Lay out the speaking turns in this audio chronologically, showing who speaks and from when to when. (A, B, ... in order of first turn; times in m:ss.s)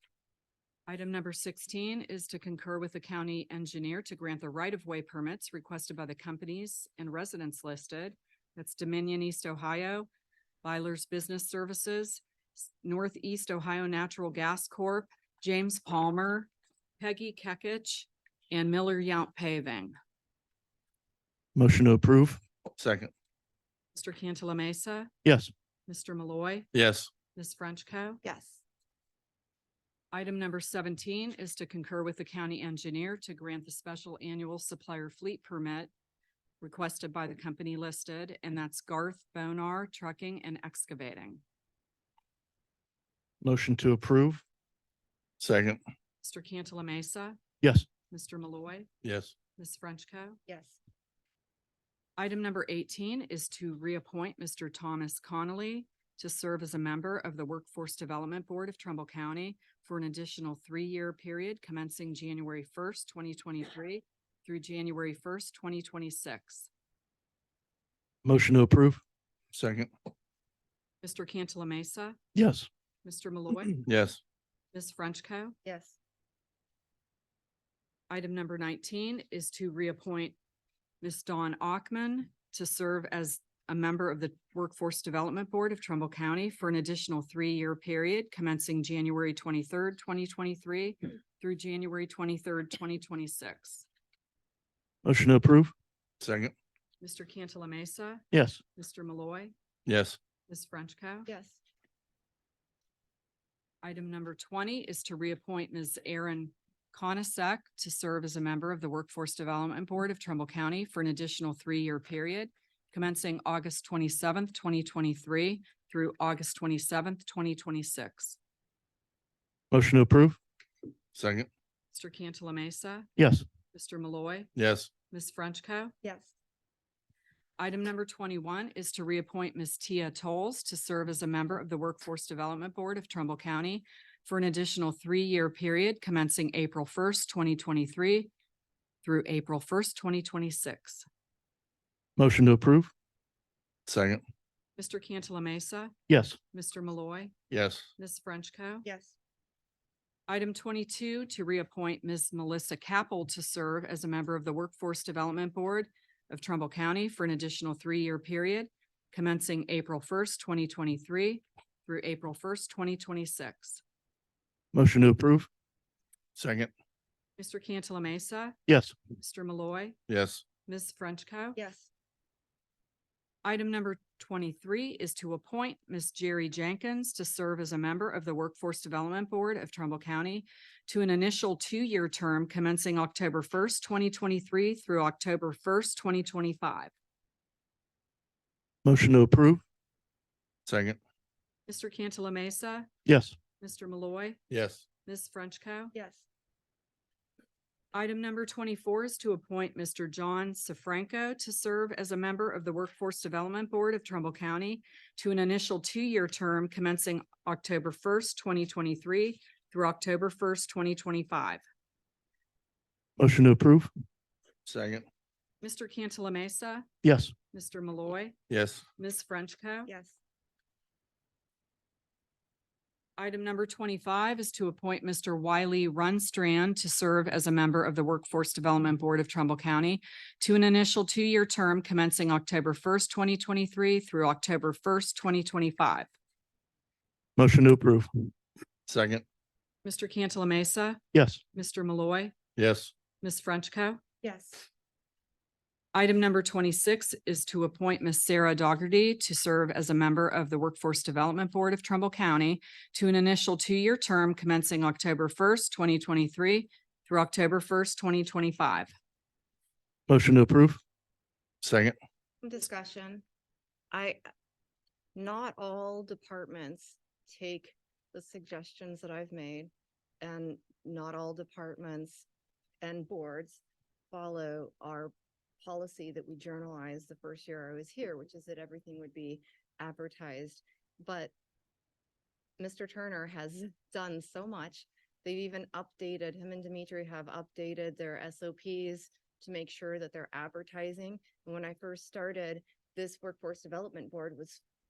0:00.9-0:10.1 A
0:10.6-0:12.2 A
0:12.8-0:19.9 A
0:21.5-0:22.4 B
0:22.8-0:23.1 C
0:23.9-0:25.1 A
0:25.2-0:25.5 B
0:25.9-0:26.7 A
0:26.7-0:27.1 C
0:27.3-0:28.2 A
0:28.2-0:28.6 D
0:30.1-0:35.9 A
0:36.6-0:41.4 A
0:43.4-0:44.4 B
0:45.4-0:45.8 C
0:46.2-0:47.4 A
0:47.6-0:47.9 B
0:48.1-0:48.9 A
0:49.0-0:49.3 C
0:49.6-0:50.4 A
0:50.5-0:50.8 D
0:52.2-1:06.7 A
1:08.2-1:09.0 B
1:09.5-1:09.9 C
1:11.0-1:12.2 A
1:12.3-1:12.7 B
1:13.0-1:13.8 A
1:13.9-1:14.2 C
1:14.7-1:15.5 A
1:15.6-1:16.0 D
1:18.1-1:20.4 A
1:21.0-1:33.9 A
1:35.0-1:35.7 B
1:36.2-1:36.5 C
1:37.0-1:39.5 A
1:38.3-1:38.6 B
1:39.8-1:40.2 C
1:40.5-1:41.3 A
1:41.2-1:41.6 D
1:43.8-1:58.4 A
1:59.7-2:00.4 B
2:01.1-2:01.5 C
2:01.9-2:03.1 A
2:03.2-2:03.4 B
2:03.7-2:04.5 A
2:04.6-2:04.9 C
2:05.1-2:05.9 A
2:06.0-2:06.3 D
2:07.6-2:18.3 A
2:19.0-2:21.0 A
2:22.2-2:22.9 B
2:23.9-2:24.2 C
2:24.8-2:25.9 A
2:26.1-2:26.4 B
2:26.5-2:27.3 A
2:27.5-2:27.9 C
2:28.0-2:28.8 A
2:28.8-2:29.1 D
2:30.3-2:43.8 A
2:44.7-2:45.5 B
2:46.4-2:46.7 C
2:47.4-2:48.6 A
2:48.7-2:48.9 B
2:49.2-2:50.0 A
2:50.1-2:50.4 C
2:50.6-2:51.6 A
2:51.6-2:51.9 D
2:53.4-3:06.9 A
3:08.8-3:09.6 B
3:10.6-3:11.0 C
3:11.7-3:12.9 A
3:13.0-3:13.4 B
3:13.6-3:14.4 A
3:14.5-3:14.8 C
3:15.0-3:15.9 A
3:15.9-3:16.2 D
3:17.9-3:31.6 A
3:33.2-3:33.9 B
3:34.6-3:35.0 C
3:35.6-3:36.8 A
3:37.0-3:37.3 B
3:37.5-3:38.4 A
3:38.5-3:38.8 C
3:39.0-3:39.9 A
3:39.9-3:40.2 D
3:43.2-3:56.1 A
3:57.4-3:58.1 B
3:58.9-3:59.2 C
3:59.8-4:01.0 A
4:01.1-4:01.4 B
4:01.5-4:02.3 A
4:02.6-4:02.9 C
4:03.2-4:04.0 A
4:04.2-4:04.7 D
4:05.9-4:18.9 A
4:20.1-4:20.8 B
4:21.6-4:22.0 C
4:22.4-4:23.2 D
4:23.9-4:24.2 D
4:25.1-4:32.3 D
4:32.8-4:41.3 D
4:42.6-4:54.6 D